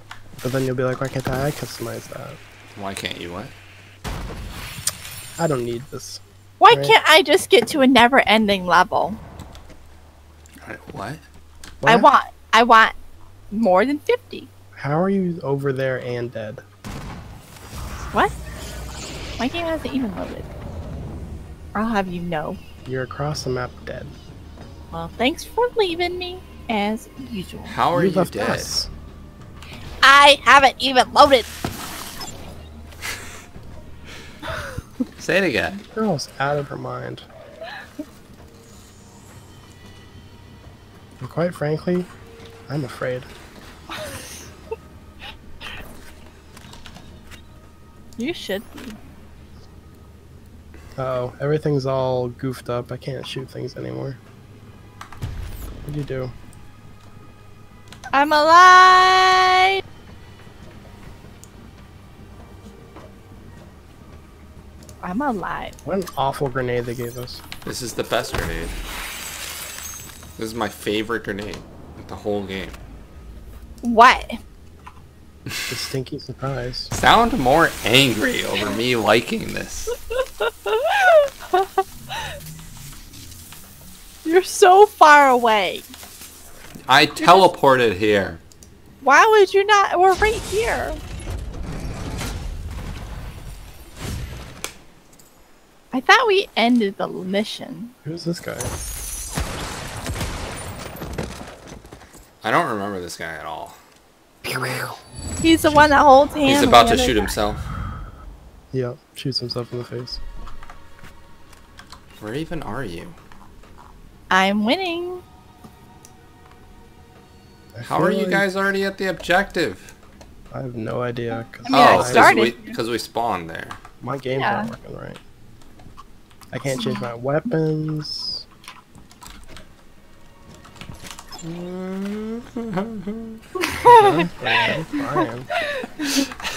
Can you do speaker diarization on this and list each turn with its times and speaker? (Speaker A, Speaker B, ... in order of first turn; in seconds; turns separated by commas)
Speaker A: 0.4-2.4, Speaker B: 2.7-3.5, Speaker A: 5.4-7.0, Speaker C: 6.6-9.2, Speaker B: 10.6-11.2, Speaker A: 11.8-12.1, Speaker C: 11.8-12.9, Speaker C: 13.5-14.5, Speaker A: 14.8-16.6, Speaker C: 18.0-18.3, Speaker C: 19.4-20.5, Speaker C: 21.7-22.6, Speaker A: 22.8-24.1, Speaker C: 24.9-27.8, Speaker B: 27.7-28.7, Speaker A: 27.9-28.9, Speaker C: 30.0-31.5, Speaker B: 35.2-35.8, Speaker A: 35.9-37.3, Speaker A: 41.2-42.1, Speaker A: 42.7-43.3, Speaker C: 43.9-44.3, Speaker C: 48.2-49.0, Speaker A: 51.0-54.2, Speaker A: 55.8-56.3, Speaker C: 58.1-59.8, Speaker C: 65.0-65.7, Speaker A: 65.8-67.4, Speaker B: 67.6-68.8, Speaker B: 70.4-72.8, Speaker C: 73.8-74.3, Speaker A: 75.7-76.9, Speaker B: 76.9-80.0, Speaker C: 80.1-82.3, Speaker C: 84.2-85.8, Speaker B: 86.9-88.4, Speaker C: 87.2-87.5, Speaker C: 89.0-91.0, Speaker C: 95.9-97.9, Speaker A: 98.0-98.7, Speaker B: 102.4-103.8, Speaker A: 104.5-105.0, Speaker B: 104.5-105.0, Speaker C: 105.4-107.3, Speaker A: 105.6-106.0, Speaker B: 106.4-107.6, Speaker A: 108.7-110.2, Speaker B: 112.2-113.2, Speaker C: 114.3-115.2, Speaker A: 117.7-118.5, Speaker B: 117.8-119.9, Speaker A: 120.5-122.3, Speaker C: 121.6-122.8, Speaker B: 121.7-123.8, Speaker A: 124.0-125.2, Speaker C: 124.4-124.7, Speaker A: 126.5-128.4, Speaker C: 126.7-127.1, Speaker B: 131.4-133.4, Speaker C: 133.6-135.2, Speaker A: 133.8-135.5, Speaker C: 135.8-136.2